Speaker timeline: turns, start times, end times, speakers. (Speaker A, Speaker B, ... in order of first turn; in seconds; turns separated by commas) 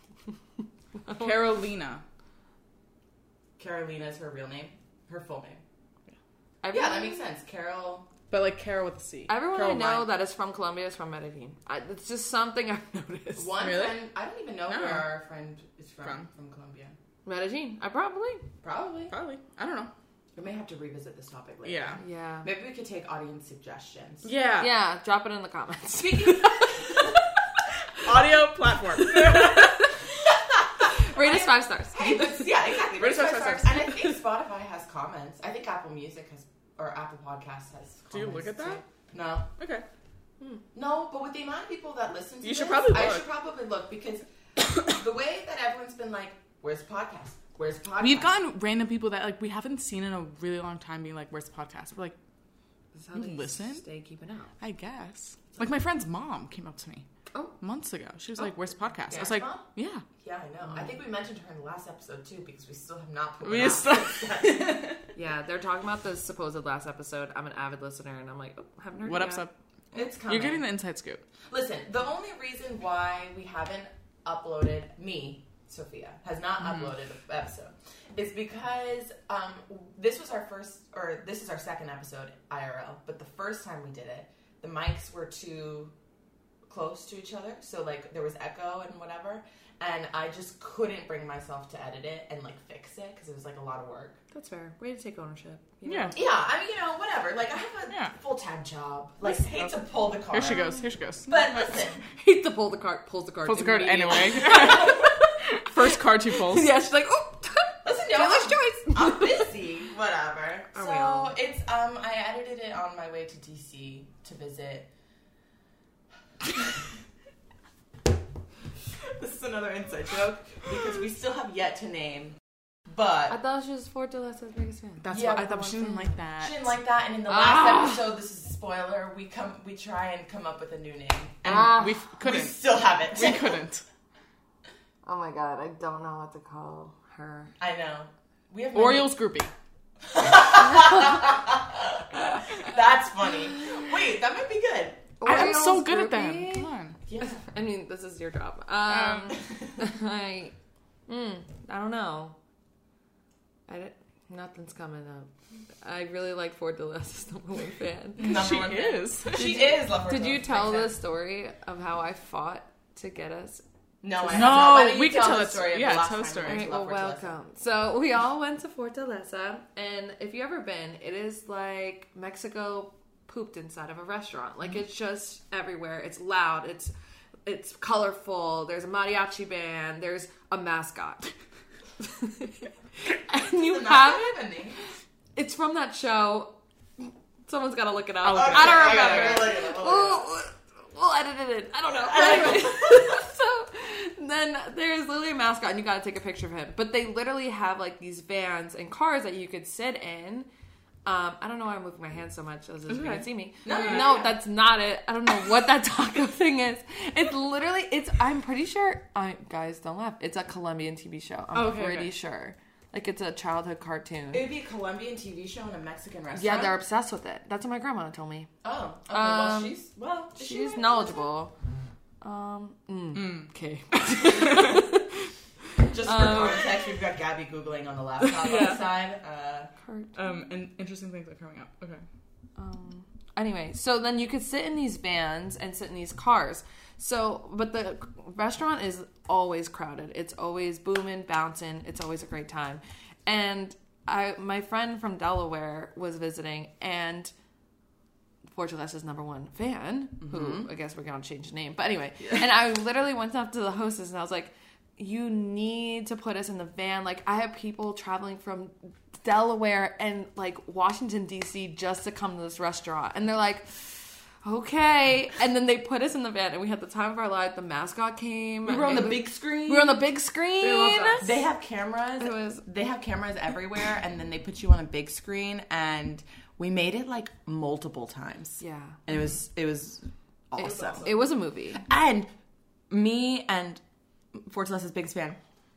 Speaker A: 1.0-1.3, Speaker B: 1.1-2.0, Speaker C: 3.6-5.6, Speaker A: 6.6-7.2, Speaker C: 6.7-8.1, Speaker B: 8.3-10.1, Speaker A: 9.3-13.6, Speaker C: 13.4-16.9, Speaker B: 13.6-14.1, Speaker B: 14.7-15.1, Speaker B: 16.0-16.3, Speaker A: 17.2-18.4, Speaker C: 18.6-19.1, Speaker B: 19.1-19.9, Speaker C: 20.3-24.3, Speaker B: 21.6-22.0, Speaker A: 22.0-22.5, Speaker B: 24.2-24.7, Speaker A: 24.6-26.7, Speaker C: 25.9-27.0, Speaker B: 28.0-29.9, Speaker A: 29.2-29.9, Speaker C: 30.6-39.5, Speaker A: 30.9-32.6, Speaker B: 32.9-34.1, Speaker B: 38.1-38.8, Speaker B: 39.6-39.8, Speaker C: 40.7-44.2, Speaker B: 42.4-43.2, Speaker C: 44.8-48.3, Speaker B: 48.0-52.1, Speaker A: 52.9-54.5, Speaker B: 53.1-53.8, Speaker B: 54.6-57.0, Speaker B: 57.6-60.0, Speaker C: 59.1-59.6, Speaker C: 60.2-64.8, Speaker A: 60.6-60.9, Speaker B: 63.4-65.1, Speaker A: 65.1-69.5, Speaker B: 69.0-71.2, Speaker C: 69.9-70.6, Speaker C: 71.5-85.9, Speaker C: 86.7-94.2, Speaker A: 94.3-96.3, Speaker B: 95.8-96.1, Speaker C: 96.1-102.0, Speaker B: 97.9-98.1, Speaker B: 99.4-101.8, Speaker A: 102.1-109.5, Speaker B: 103.4-106.8, Speaker C: 107.8-114.9, Speaker A: 110.7-111.3, Speaker C: 119.0-122.4, Speaker C: 122.9-123.3, Speaker A: 123.3-126.1, Speaker B: 125.0-126.7, Speaker C: 125.1-125.4, Speaker C: 126.4-133.6, Speaker A: 127.3-128.0, Speaker B: 131.5-133.8, Speaker A: 131.5-132.0, Speaker A: 135.0-137.5, Speaker C: 137.6-139.2, Speaker B: 138.7-139.5, Speaker C: 140.0-145.1, Speaker A: 145.2-150.6, Speaker B: 145.2-147.0, Speaker C: 147.1-147.4, Speaker B: 148.9-149.4, Speaker A: 151.1-152.3, Speaker A: 153.7-155.3, Speaker A: 155.8-158.3, Speaker C: 158.2-160.9, Speaker B: 158.2-159.7, Speaker A: 160.1-163.6, Speaker C: 164.0-167.3, Speaker B: 164.3-166.7, Speaker A: 166.4-176.9, Speaker A: 177.4-181.3, Speaker A: 182.0-184.4, Speaker C: 183.3-184.8, Speaker A: 185.3-200.5, Speaker B: 188.2-189.5, Speaker C: 188.3-190.3, Speaker C: 191.9-193.2, Speaker A: 201.1-214.4, Speaker B: 202.9-204.1, Speaker C: 203.6-204.4, Speaker B: 211.5-212.1, Speaker C: 214.3-216.8, Speaker A: 216.3-218.5, Speaker C: 218.6-221.3, Speaker A: 219.1-219.8, Speaker A: 220.3-221.6, Speaker A: 222.2-225.0, Speaker B: 223.1-225.0, Speaker C: 225.9-229.7, Speaker A: 226.0-226.8, Speaker B: 228.3-228.9, Speaker A: 229.8-230.2, Speaker B: 230.2-232.0, Speaker A: 232.6-247.3, Speaker A: 248.5-271.4, Speaker C: 250.2-250.7, Speaker C: 268.7-270.0, Speaker B: 270.6-271.3, Speaker C: 271.2-281.1, Speaker A: 272.2-272.6, Speaker A: 278.6-279.0, Speaker B: 280.6-281.3, Speaker A: 280.9-281.8, Speaker C: 281.7-282.3, Speaker C: 282.9-283.8, Speaker C: 284.3-285.4